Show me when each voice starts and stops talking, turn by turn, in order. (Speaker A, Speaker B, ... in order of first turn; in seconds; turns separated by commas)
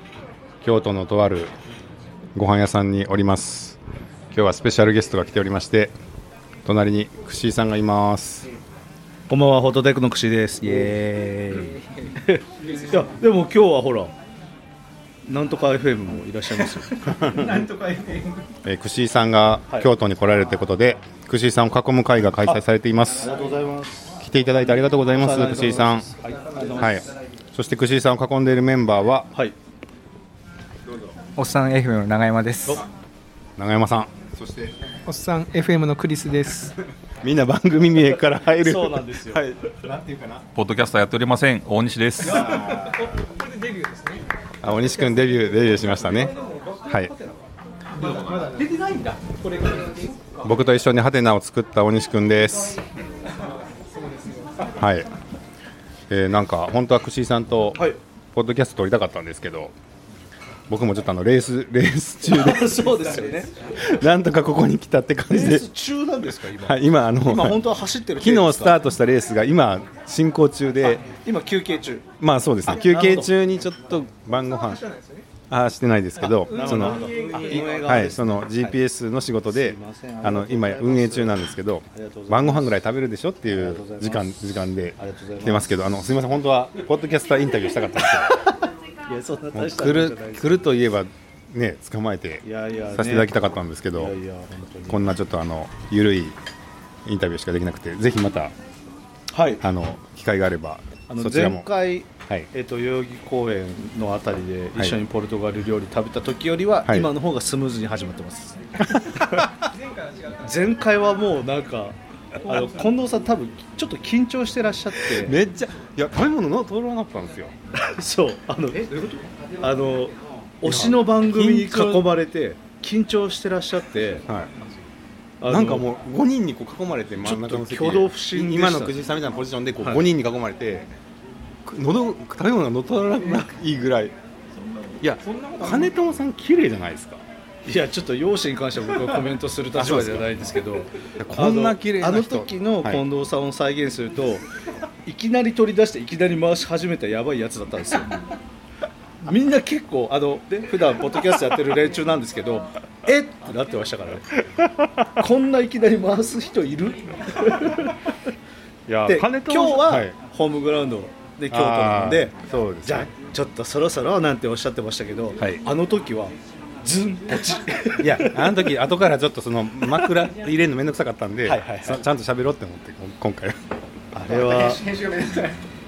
Speaker A: 0.6-1.5, Speaker A: 2.3-3.8, Speaker A: 4.3-5.9, Speaker A: 6.6-8.5, Speaker B: 9.3-14.1, Speaker C: 10.6-13.1, Speaker B: 15.2-17.6, Speaker D: 17.2-18.5, Speaker A: 18.6-23.3, Speaker B: 23.2-27.1, Speaker A: 24.2-26.1, Speaker C: 26.4-27.0, Speaker A: 26.8-29.3, Speaker C: 31.4-32.8, Speaker A: 33.6-34.7, Speaker D: 35.0-36.8, Speaker A: 37.2-40.4, Speaker B: 38.6-39.8, Speaker E: 40.5-42.5, Speaker D: 42.2-46.0, Speaker A: 42.3-43.0, Speaker A: 44.6-46.3, Speaker C: 45.9-47.4, Speaker D: 47.9-50.2, Speaker E: 48.0-48.6, Speaker C: 48.5-49.3, Speaker C: 50.0-50.4, Speaker A: 50.4-52.8, Speaker D: 53.4-54.7, Speaker A: 54.8-55.1, Speaker A: 56.1-59.7, Speaker A: 60.7-63.0, Speaker B: 62.2-63.7, Speaker C: 63.0-63.5, Speaker A: 63.7-65.7, Speaker B: 65.3-68.8, Speaker A: 66.6-67.6, Speaker A: 68.2-71.0, Speaker B: 71.0-72.1, Speaker A: 72.2-74.8, Speaker B: 72.6-73.3, Speaker D: 74.3-75.3, Speaker A: 75.5-88.4, Speaker D: 76.2-78.1, Speaker B: 76.2-78.8, Speaker B: 79.5-82.8, Speaker B: 83.4-85.8, Speaker B: 88.5-90.7, Speaker A: 89.5-94.2, Speaker B: 92.4-95.0, Speaker A: 94.9-96.4, Speaker A: 97.0-98.5, Speaker B: 99.3-99.6, Speaker A: 99.6-101.7, Speaker B: 101.1-109.3, Speaker A: 106.8-107.1, Speaker D: 109.5-110.9, Speaker B: 110.4-115.3, Speaker D: 112.4-112.8, Speaker A: 115.0-117.5, Speaker B: 117.7-124.2, Speaker C: 119.0-119.3, Speaker A: 120.6-122.1, Speaker B: 125.4-125.8, Speaker A: 125.5-130.9, Speaker B: 127.2-129.1, Speaker B: 129.8-130.1, Speaker A: 131.7-134.1, Speaker E: 134.5-135.1, Speaker A: 135.0-137.2, Speaker D: 135.2-135.9, Speaker B: 137.7-144.4, Speaker A: 139.7-140.5, Speaker A: 141.2-143.0, Speaker B: 145.0-148.3, Speaker B: 149.2-158.1, Speaker A: 158.9-160.2, Speaker B: 159.1-168.7, Speaker A: 161.5-163.1, Speaker A: 165.4-165.6, Speaker A: 168.0-173.6, Speaker B: 171.4-172.0, Speaker B: 174.1-175.0, Speaker C: 174.3-175.6